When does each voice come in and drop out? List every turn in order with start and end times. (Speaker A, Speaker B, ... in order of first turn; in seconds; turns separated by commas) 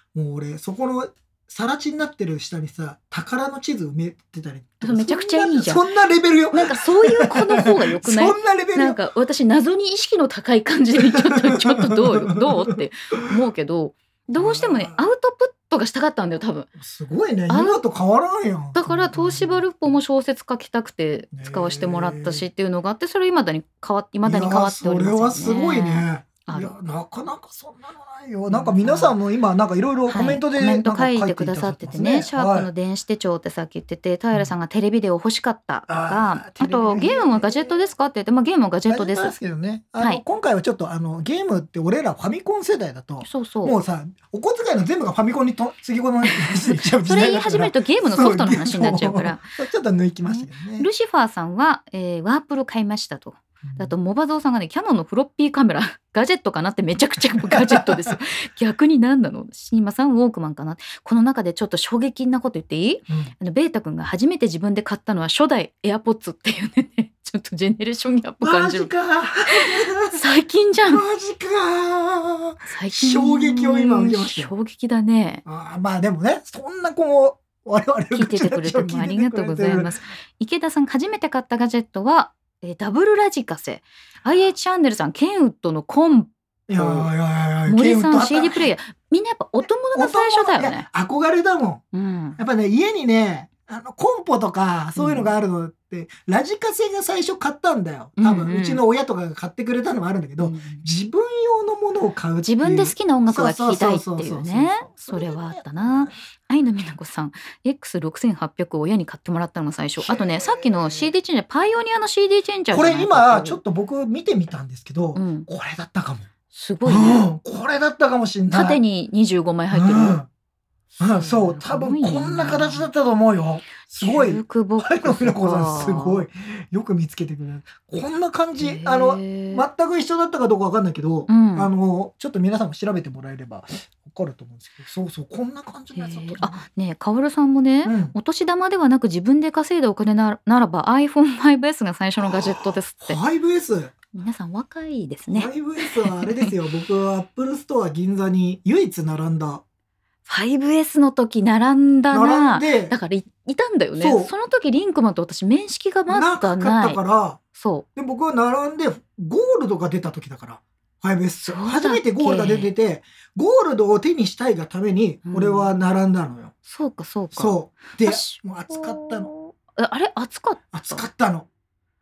Speaker A: 0.1-9.0, Speaker B: 4.8-5.8, Speaker B: 6.5-16.7, Speaker A: 11.0-12.8, Speaker A: 14.3-15.0, Speaker A: 16.8-20.0, Speaker B: 17.5-17.8, Speaker B: 18.8-26.7, Speaker A: 21.3-22.5, Speaker A: 24.2-32.7, Speaker B: 28.5-29.2, Speaker B: 30.1-39.4, Speaker A: 35.9-37.8, Speaker A: 38.9-50.9, Speaker B: 43.2-43.8, Speaker B: 46.3-49.5, Speaker B: 50.2-68.9, Speaker A: 53.6-53.9, Speaker A: 57.3-58.2, Speaker A: 68.4-70.2, Speaker B: 69.5-71.1, Speaker A: 70.9-74.5, Speaker B: 72.7-75.4, Speaker A: 75.5-80.0, Speaker B: 78.1-87.1, Speaker A: 86.7-88.7, Speaker B: 87.7-90.9, Speaker A: 89.9-91.8, Speaker B: 91.9-92.4, Speaker A: 92.4-106.2, Speaker B: 95.0-95.3, Speaker B: 98.2-98.8, Speaker B: 100.4-100.8, Speaker B: 102.4-113.6, Speaker A: 110.0-111.1, Speaker A: 112.7-116.3, Speaker B: 115.2-115.5, Speaker B: 116.5-117.3, Speaker A: 116.8-118.8, Speaker B: 118.5-120.2, Speaker A: 119.7-120.3, Speaker B: 121.0-122.9, Speaker A: 121.0-136.7, Speaker B: 124.0-126.2, Speaker B: 128.6-129.7, Speaker B: 131.3-131.7, Speaker B: 135.9-143.2, Speaker A: 137.8-138.2, Speaker A: 142.2-143.9, Speaker B: 144.1-146.6, Speaker A: 145.3-149.6, Speaker B: 150.3-157.0, Speaker A: 152.1-152.9, Speaker A: 154.0-154.3, Speaker A: 156.1-157.4, Speaker B: 157.5-157.8, Speaker A: 158.0-166.5, Speaker B: 161.4-162.7, Speaker B: 165.3-165.7, Speaker B: 166.7-171.1, Speaker A: 167.3-169.3, Speaker A: 170.7-171.5